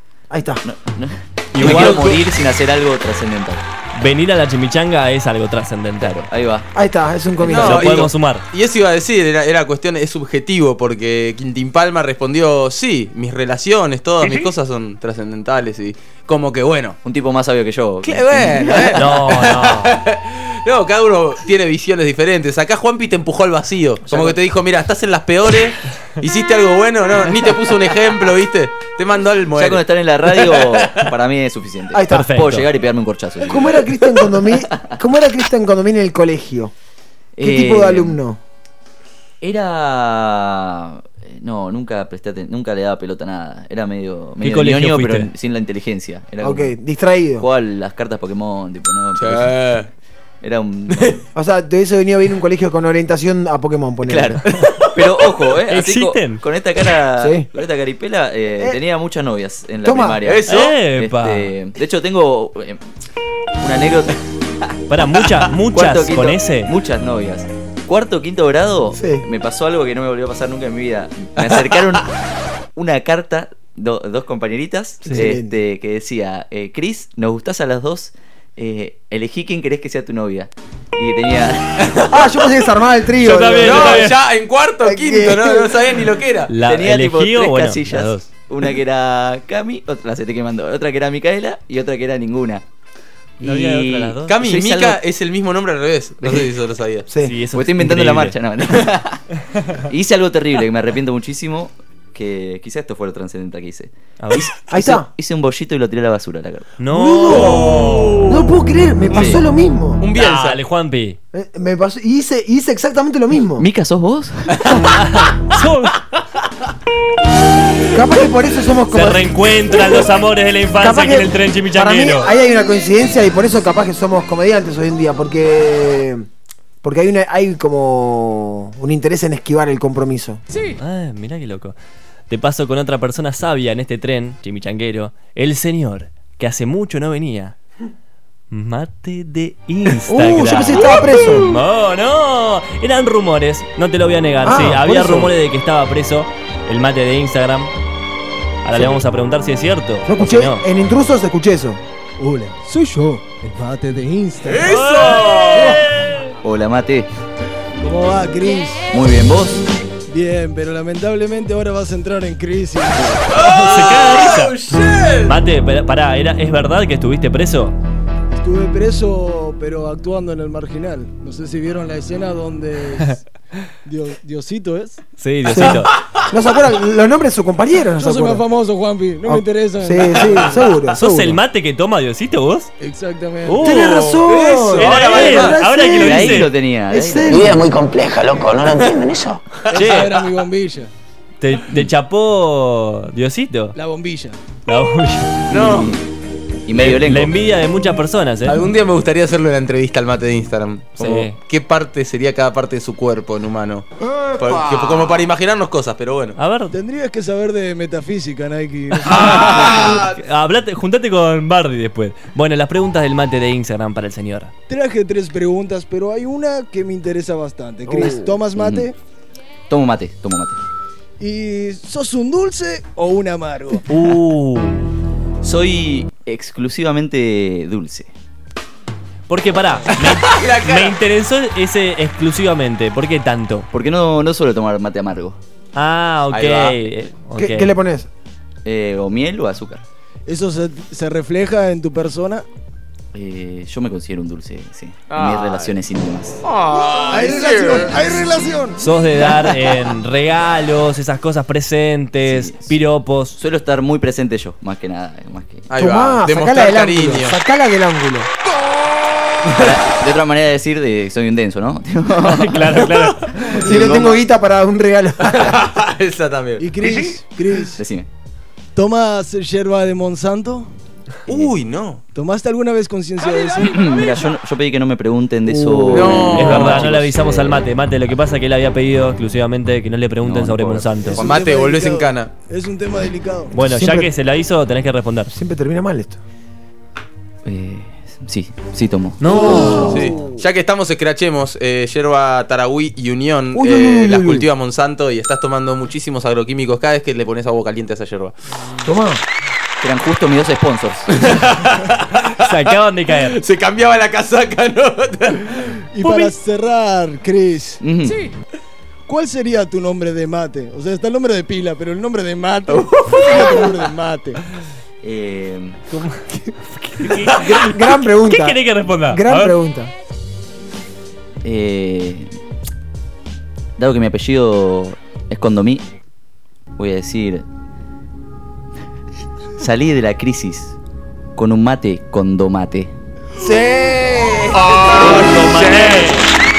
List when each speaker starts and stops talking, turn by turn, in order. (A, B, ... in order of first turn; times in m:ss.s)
0:00.3-0:00.6 A
0:00.6-0:03.6 B
0:01.5-0:02.2 C
0:01.6-0:02.0 D
0:04.0-0:06.3 C
0:06.0-0:06.7 B
0:06.7-0:08.1 A
0:07.4-0:08.4 C
0:07.5-0:17.0 D
0:14.2-0:14.5 C
0:17.0-0:19.2 B
0:18.0-0:31.0 D
0:19.0-0:20.0 C
0:24.1-0:24.4 B
0:29.6-0:33.8 B
0:31.9-0:32.3 A
0:32.1-0:32.7 C
0:33.5-0:36.7 A
0:37.4-0:38.2 B
0:37.4-0:38.4 A
0:39.4-0:46.8 B
0:44.4-0:45.3 C
0:46.4-0:47.5 A
0:47.4-0:49.5 B
0:49.2-0:49.9 D
0:50.4-0:51.2 B
0:50.9-0:51.2 D
0:51.4-0:54.4 A
0:54.1-0:54.4 B
0:54.9-1:02.8 B
0:55.7-0:56.4 C
0:57.2-0:57.5 A
0:59.8-1:00.2 A
1:00.2-1:00.8 D
1:00.5-1:01.5 C
1:03.6-1:04.7 B
1:04.9-1:06.7 C
1:05.7-1:12.2 B
1:09.0-1:09.3 A
1:11.4-1:11.9 D
1:12.8-1:22.5 B
1:15.0-1:15.6 A
1:15.1-1:15.3 C
1:22.1-1:24.1 A
1:23.2-1:24.2 C
1:23.6-1:26.5 D
1:24.8-1:25.9 A
1:26.5-1:28.3 C
1:26.6-1:32.6 B
1:33.4-1:34.4 C
1:33.4-1:35.0 B
1:34.3-1:37.1 D
1:36.2-1:36.5 B
1:37.1-1:37.4 A
1:37.2-1:38.4 C
1:37.5-1:39.2 B
1:39.8-1:46.7 B
1:44.2-1:44.5 C
1:44.7-1:45.1 A
1:46.8-1:48.2 C
1:46.9-1:50.0 A
1:47.5-1:48.4 D
1:49.1-1:49.4 B
1:50.0-1:50.6 D
1:50.2-1:51.2 C
1:51.3-1:53.7 A
1:53.6-1:54.6 B
1:54.6-1:54.9 D
1:54.7-1:56.0 C
1:57.9-2:00.2 A
1:58.9-2:02.3 C
2:00.8-2:06.3 A
2:06.8-2:10.4 A
2:10.8-2:11.8 C
2:12.3-2:17.6 C
2:18.5-2:27.7 C
2:20.1-2:21.5 A
2:24.4-2:25.4 A
2:28.6-2:30.6 C
2:30.1-2:31.8 A
2:32.2-2:35.0 E
2:34.5-2:35.8 D
2:34.7-2:36.3 C
2:36.4-2:37.1 B
2:37.8-2:38.9 E
2:38.9-2:39.7 B
2:40.1-2:43.9 E
2:43.3-2:45.3 D
2:43.4-2:44.6 C
2:45.2-2:47.8 C
2:48.3-2:53.2 E
2:53.8-2:55.0 E
2:55.2-2:55.9 C
2:55.5-2:58.4 A
2:58.0-3:00.6 E
2:59.3-3:01.4 A
3:00.9-3:02.7 C
3:02.8-3:03.7 E
3:03.4-3:04.2 C
3:03.6-3:07.6 A
3:04.2-3:05.6 D
3:04.8-3:06.5 C
3:06.0-3:07.6 B
3:07.3-3:09.4 F
3:09.7-3:10.9 E
3:09.8-3:10.1 C
3:11.4-3:13.8 C
3:13.8-3:14.4 E
3:14.7-3:15.5 C
3:15.5-3:16.0 B
3:15.5-3:16.0 D
3:16.7-3:17.3 B
3:16.8-3:18.6 C
3:18.5-3:26.4 D
3:21.0-3:21.4 C
3:26.4-3:26.8 C
3:26.7-3:29.7 E
3:29.1-3:30.2 D
3:29.1-3:34.5 C
3:34.7-3:39.0 E
3:37.9-3:38.4 A
3:38.6-3:38.9 B
3:39.7-3:40.6 B
3:41.2-3:43.9 E
3:43.9-3:44.9 C
3:45.4-3:48.1 B
3:49.3-3:53.7 C
3:49.9-3:51.0 D
3:53.7-3:55.4 B
3:55.7-3:57.8 C
3:56.3-3:56.9 D
3:57.4-3:58.1 A
3:58.6-3:59.8 B
4:00.3-4:02.5 E
4:03.1-4:06.4 B
4:05.1-4:05.8 D
4:06.4-4:08.1 D
4:06.8-4:08.8 E
4:08.8-4:13.4 C
4:12.2-4:12.8 B
4:13.4-4:15.7 B
4:15.7-4:17.4 D
4:15.8-4:18.3 A
4:19.5-4:22.8 B
4:22.2-4:23.3 C
4:23.4-4:25.5 A
4:23.6-4:24.0 E
4:23.6-4:24.2 B
4:25.3-4:27.2 D
4:26.6-4:27.8 E
4:27.8-4:28.1 B
4:28.8-4:30.7 E
4:31.3-4:32.0 D
4:31.3-4:31.6 B
4:32.1-4:33.9 E
4:33.6-4:37.7 B
4:35.5-4:36.6 A
4:35.9-4:36.9 D
4:36.3-4:41.2 C
4:40.2-4:41.2 B
4:41.0-4:41.3 A
4:41.2-4:43.5 E
4:41.2-4:42.3 D
4:43.5-4:45.3 C
4:43.6-4:44.1 A
4:45.3-4:46.2 A
4:47.4-4:50.1 B
4:49.2-4:50.0 C
4:49.3-4:50.2 A
4:49.8-4:58.3 D
4:53.5-4:54.5 A
4:58.8-4:59.2 A
4:59.8-5:01.1 B
5:01.1-5:02.3 D
5:02.4-5:03.4 C
5:03.3-5:05.8 D
5:05.9-5:07.8 E
5:06.0-5:06.3 C
5:07.8-5:08.2 B
5:09.1-5:14.4 E
5:15.0-5:15.8 B
5:15.9-5:19.6 C
5:17.1-5:19.9 A
5:21.4-5:22.3 B
5:23.8-5:25.8 B
5:26.8-5:27.5 B
5:29.6-5:30.8 B
5:31.4-5:32.9 B
5:33.4-5:34.6 A
5:33.8-5:36.2 D
5:35.0-5:36.3 C